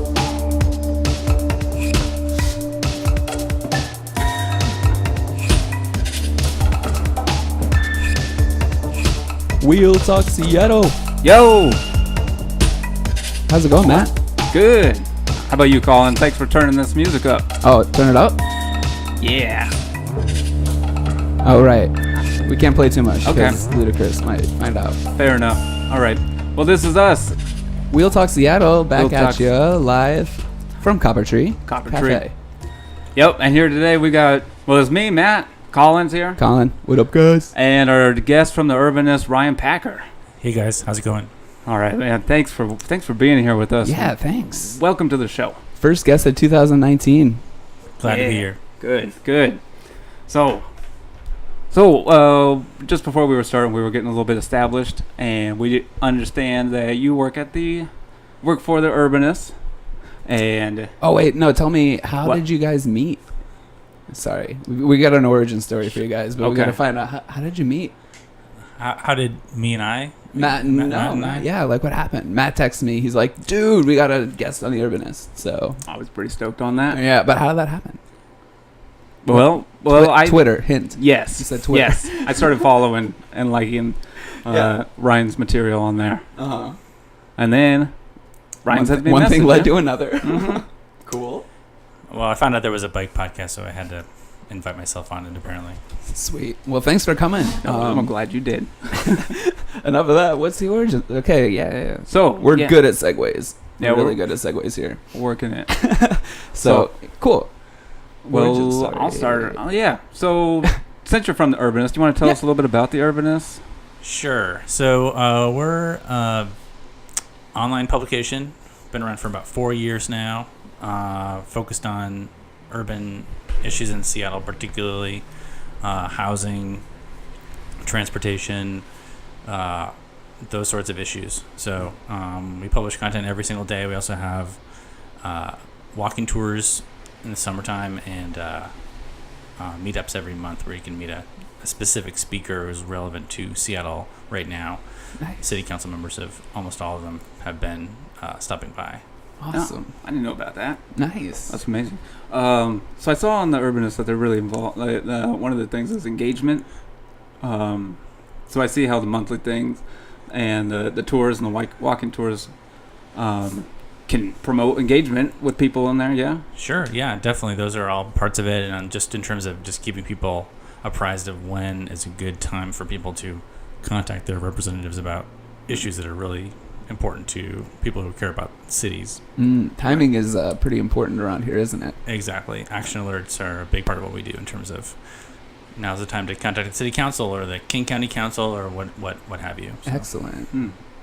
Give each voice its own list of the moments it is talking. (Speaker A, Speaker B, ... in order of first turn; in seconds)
Speaker A: 9.6-10.9, 13.5-14.1, 17.6-18.4, 21.4-25.0, 27.9-32.3, 36.4-37.5, 43.8-44.8, 45.8-47.4, 61.0-63.2, 64.1-67.9, 70.3-75.8, 76.9-78.0, 79.3-82.5, 84.5-84.7, 86.3-86.8, 88.7-91.4, 96.1-98.1, 98.9-105.0, 105.7-107.5, 108.3-109.6, 149.4-149.9, 150.9-151.5, 179.4-182.0, 189.8-190.5
Speaker B: 11.2-11.8, 14.5-17.5, 19.2-19.7, 23.2-23.6, 25.1-27.4, 28.9-29.5, 31.6-32.2, 33.1-36.4, 37.5-40.0, 41.6-45.6, 48.0-49.6, 50.3-50.7, 51.7-57.9, 58.4-59.5, 60.2-60.9, 66.4-66.8, 75.8-77.0, 79.2-86.2, 87.4-87.9, 88.6-90.6, 97.6-99.2, 102.1-102.8, 103.8-104.2, 105.1-105.7, 106.6-106.9, 108.2-113.6, 149.5-150.9, 151.5-156.7, 157.4-162.5, 163.1-166.4, 190.5-190.8
Speaker C: 40.4-41.3, 48.0-48.6, 68.8-71.5, 92.1-95.8, 114.0-116.5, 117.5-125.2, 125.8-126.8, 127.8-128.8, 129.4-134.6, 135.2-138.7, 139.6-144.8, 145.4-149.0, 166.5-179.2, 182.1-184.9, 185.7-190.1